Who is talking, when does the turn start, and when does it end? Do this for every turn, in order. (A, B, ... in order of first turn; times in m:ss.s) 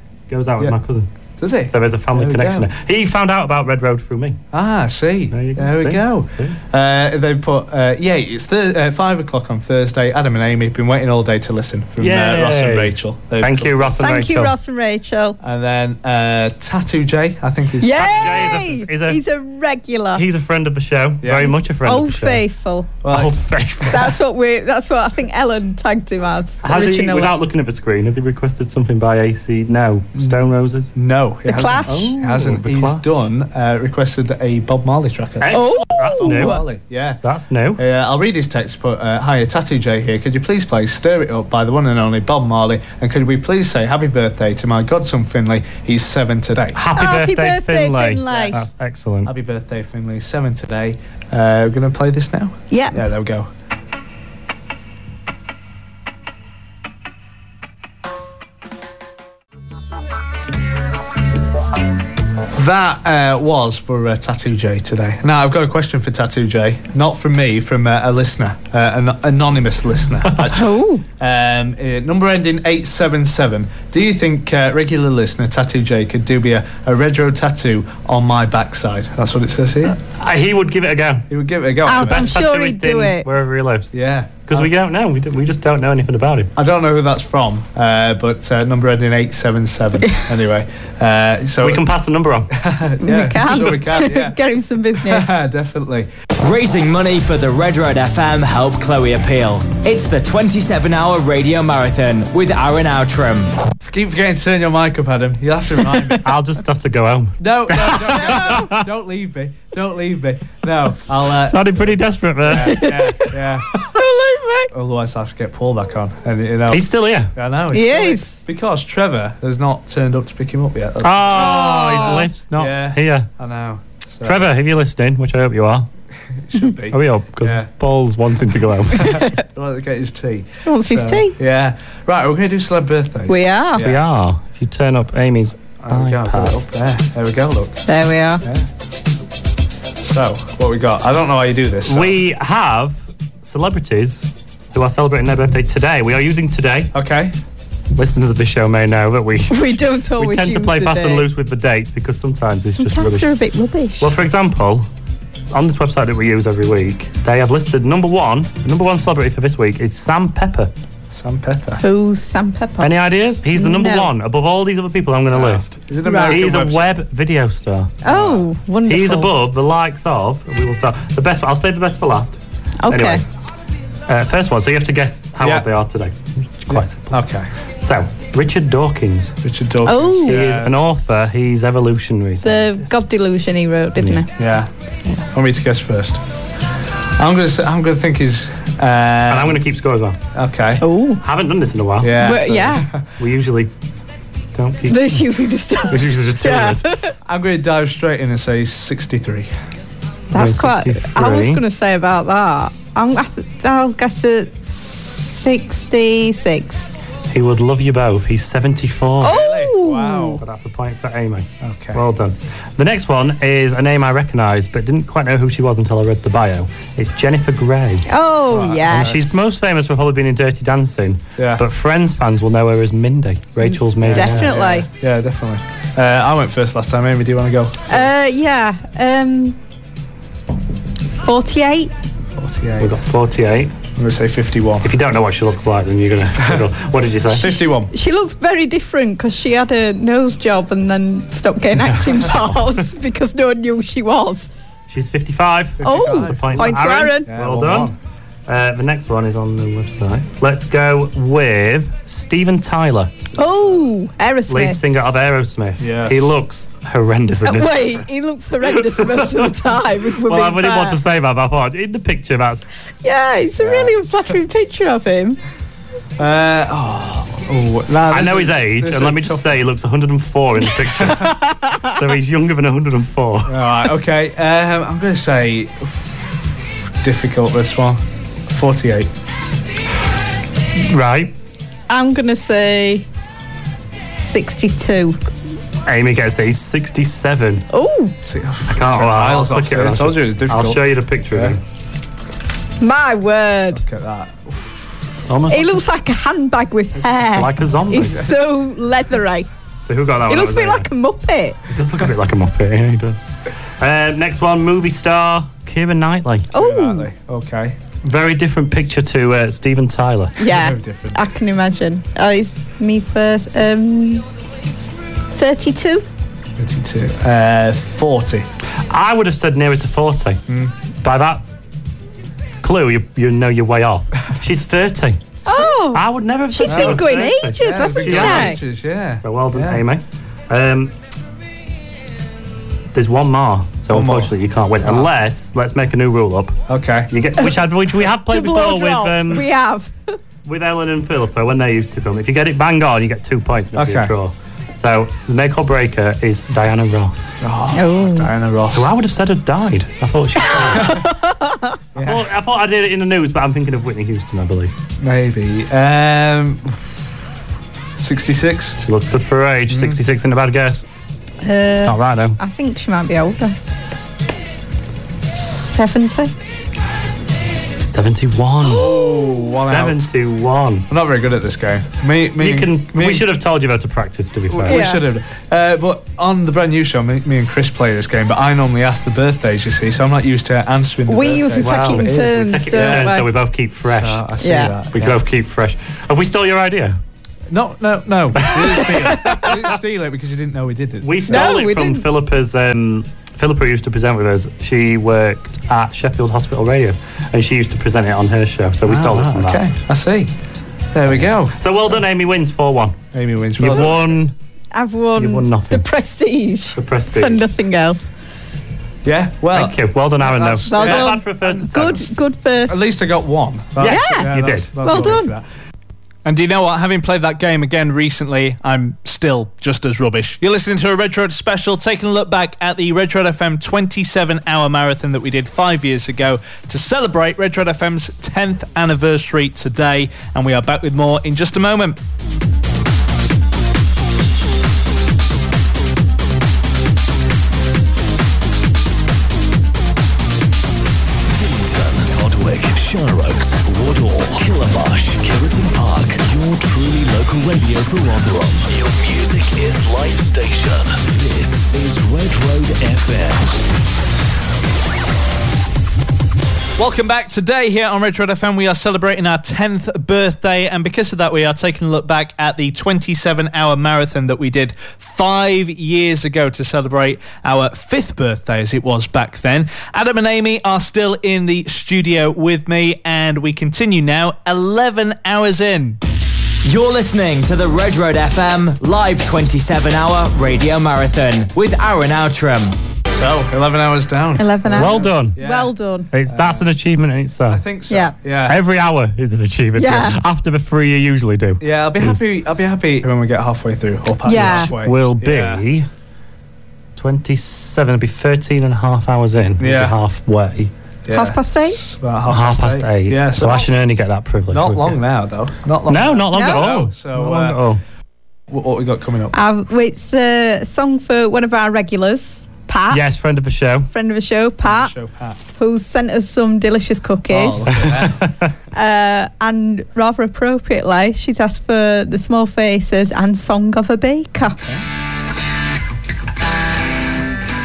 0:00.3-0:01.1 A
0:01.4-0:02.6 B
0:01.7-0:04.4 A
0:04.5-0:14.0 B
0:05.3-0:06.6 A
0:12.0-0:14.5 A
0:14.0-0:15.4 C
0:15.4-0:18.3 B
0:17.8-0:20.2 C
0:17.9-0:19.2 A
0:20.2-0:22.4 A
0:21.2-0:21.5 B
0:21.4-0:23.0 C
0:23.0-0:24.0 B
0:23.1-0:24.1 A
0:23.9-0:27.4 C
0:26.6-0:30.9 A
0:31.0-0:35.6 B
0:31.5-0:32.2 C
0:31.8-0:33.0 A
0:35.4-0:36.6 A
0:35.5-0:36.6 C
0:36.2-0:37.2 B
0:37.2-0:37.8 A
0:37.8-0:46.8 B
0:46.7-0:49.3 A
0:46.9-0:48.6 C
0:48.3-0:48.6 B
0:49.2-0:53.5 B
0:52.7-0:53.0 C
1:02.6-1:20.0 B
1:10.5-1:11.0 C
1:20.0-1:21.2 A
1:21.3-1:22.4 B
1:21.8-1:23.3 C
1:21.9-1:23.9 A
1:23.9-1:24.7 B
1:24.4-1:26.5 A
1:26.6-1:31.8 B
1:31.6-1:32.5 A
1:32.5-1:34.4 B
1:33.0-1:35.4 C
1:35.0-1:36.1 B
1:36.4-1:43.5 D
1:43.8-1:46.2 B
1:46.2-1:48.8 A
1:47.4-1:53.6 B
1:51.4-1:52.9 A
1:52.6-1:53.4 C
1:53.9-1:54.7 C
1:54.7-2:04.4 B
1:56.7-1:57.3 A
1:57.7-1:58.4 C
2:01.0-2:03.3 A
2:01.3-2:02.3 C
2:04.2-2:05.9 A
2:06.4-2:07.7 B
2:06.9-2:09.2 A
2:09.0-2:14.0 B
2:09.0-2:09.3 C
2:10.6-2:11.3 C
2:13.3-2:13.8 C
2:13.8-2:16.6 A
2:15.8-2:17.8 B
2:17.9-2:18.4 C
2:20.0-2:22.2 B
2:21.8-2:26.9 A
2:26.9-2:27.3 B
2:27.9-2:33.3 A
2:29.5-2:31.3 C
2:32.7-2:34.1 C
2:34.0-2:34.8 A
2:35.5-2:40.7 A
2:41.1-2:41.8 B
2:41.8-2:43.0 C
2:42.8-2:45.8 A
2:43.5-2:44.1 C
2:45.3-2:46.9 B
2:46.0-2:46.4 C
2:46.3-2:48.0 A
2:48.0-2:49.3 C
2:48.0-2:48.4 B
2:48.8-2:53.2 A
2:52.8-2:53.2 C
2:54.1-2:57.2 A
2:56.7-2:57.5 B
2:57.8-2:59.4 A
2:59.4-3:00.7 B
2:59.8-3:00.4 C
3:00.2-3:03.0 A
3:02.4-3:04.3 C
3:04.0-3:04.2 A
3:04.4-3:04.7 B
3:05.3-3:06.2 B
3:07.2-3:09.6 B
3:09.3-3:10.2 A
3:10.3-3:10.8 B
3:10.8-3:11.2 C
3:11.2-3:12.4 A
3:12.0-3:13.0 B
3:12.2-3:12.9 C
3:13.2-3:13.7 A
3:14.5-3:15.3 A
3:14.9-3:17.1 C
3:15.9-3:16.9 A
3:17.2-3:19.5 B
3:20.3-3:21.6 A
3:20.3-3:26.9 C
3:27.3-3:29.4 A
3:29.2-3:30.4 C
3:29.2-3:30.4 B
3:30.4-3:38.1 A
3:31.6-3:32.0 B
3:38.1-3:39.3 C
3:38.5-3:39.3 B
3:38.9-3:44.5 A
3:41.4-3:41.6 B
3:44.0-3:48.1 B
3:44.1-3:44.9 C
3:47.9-3:49.6 C
3:51.2-3:51.9 C
3:52.4-3:52.9 B
3:52.8-3:53.7 A
3:54.0-3:54.9 B
3:54.8-3:57.6 A
3:57.3-3:57.9 B
3:57.9-4:04.5 C
4:01.8-4:02.5 A
4:04.9-4:07.9 A
4:05.8-4:07.9 B
4:05.8-4:07.3 C
4:08.5-4:13.3 A
4:13.4-4:14.8 C
4:14.5-4:18.0 A
4:15.8-4:16.2 B
4:17.4-4:21.0 C
4:18.8-4:19.5 A
4:20.1-4:22.7 A
4:23.0-4:25.4 C
4:23.6-4:23.9 B
4:26.2-4:29.5 B
4:28.1-4:33.6 A
4:31.0-4:31.2 B
4:31.6-4:32.0 C
4:33.5-4:35.9 B
4:37.0-4:39.1 B
4:40.8-4:41.3 A
4:41.9-4:43.0 C
4:44.2-4:45.2 C
4:45.8-4:47.6 A
4:47.7-4:48.1 C
4:48.2-4:51.6 B
4:48.7-4:51.6 A
4:52.8-4:53.8 C
4:53.7-4:55.0 B
4:55.2-4:55.8 A
4:55.5-4:59.5 C
4:57.2-4:58.3 A
4:58.0-4:58.3 B
4:59.8-5:00.9 A
5:00.3-5:01.6 C
5:01.7-5:03.2 A
5:03.8-5:06.5 A
5:06.5-5:07.1 C
5:06.5-5:07.8 B
5:08.0-5:10.4 A
5:10.4-5:14.2 C
5:10.5-5:11.2 B
5:15.3-5:16.0 C
5:16.6-5:18.5 B
5:18.9-5:20.4 A
5:21.0-5:21.4 A
5:22.6-5:25.2 A
5:25.4-5:28.6 C
5:25.9-5:28.6 A
5:26.6-5:29.8 B
5:29.2-5:30.9 A
5:32.9-5:36.5 A
5:33.9-5:34.3 B
5:34.8-5:35.1 B
5:36.7-5:37.1 B
5:37.1-5:39.5 A
5:38.3-5:40.1 C
5:40.4-5:47.4 A
5:43.8-5:44.1 B
5:47.4-5:48.9 B
5:47.7-5:48.3 C
5:48.7-5:51.0 A
5:50.5-5:51.1 B
5:50.6-5:51.6 C
5:52.0-5:52.3 B
5:52.0-5:54.7 A
5:55.0-5:56.8 B
5:58.0-5:58.8 B
5:58.8-6:00.8 A
5:59.7-6:00.0 B
6:01.4-6:03.6 C
6:01.7-6:02.4 A
6:05.3-6:06.3 C
6:07.8-6:10.9 A
6:08.6-6:09.6 C
6:08.6-6:10.0 B
6:10.9-6:13.3 B
6:12.4-6:14.8 A
6:14.5-6:23.2 B
6:14.7-6:15.0 C
6:21.1-6:23.3 C
6:21.6-6:24.3 A
6:23.8-6:25.2 B
6:24.4-6:24.8 C
6:24.9-6:27.0 A
6:27.5-6:31.6 B
6:28.4-6:29.6 A
6:31.0-6:39.6 A
6:31.3-6:32.0 C
6:38.8-6:40.3 B
6:40.9-6:42.0 B
6:41.6-6:43.0 A
6:43.1-6:44.2 B
6:43.6-6:44.3 A
6:44.7-6:48.1 C
6:45.2-6:45.9 A
6:46.8-6:47.4 A
6:49.0-6:52.1 B
6:49.5-6:52.0 A
6:50.7-6:52.9 C
6:52.7-6:55.4 B
6:53.8-6:55.0 A
6:53.8-6:55.3 C
6:56.2-7:12.0 B
7:21.3-7:33.5 E
7:36.8-7:56.0 B
7:56.6-8:02.8 D
8:03.1-8:05.7 B
8:04.4-8:06.1 C
8:04.8-8:05.4 A
8:06.1-8:07.6 A
8:06.3-8:06.7 B
8:07.5-8:08.6 B
8:07.9-8:08.1 C
8:08.4-8:12.2 A
8:09.7-8:10.2 C
8:11.6-8:15.6 B
8:14.2-8:14.7 C
8:14.3-8:15.9 A
8:17.0-8:20.7 A
8:19.6-8:19.9 B
8:21.0-8:23.7 B
8:21.1-8:21.8 C
8:22.3-8:25.0 A
8:24.5-8:27.6 B
8:25.9-8:27.8 A
8:26.3-8:26.7 C
8:28.5-8:29.3 B
8:29.3-8:33.0 C
8:32.9-8:33.9 A
8:33.9-8:34.9 C
8:34.6-8:35.4 B
8:35.6-8:37.7 C
8:37.3-8:38.2 B
8:37.6-8:38.5 A
8:38.7-8:44.6 C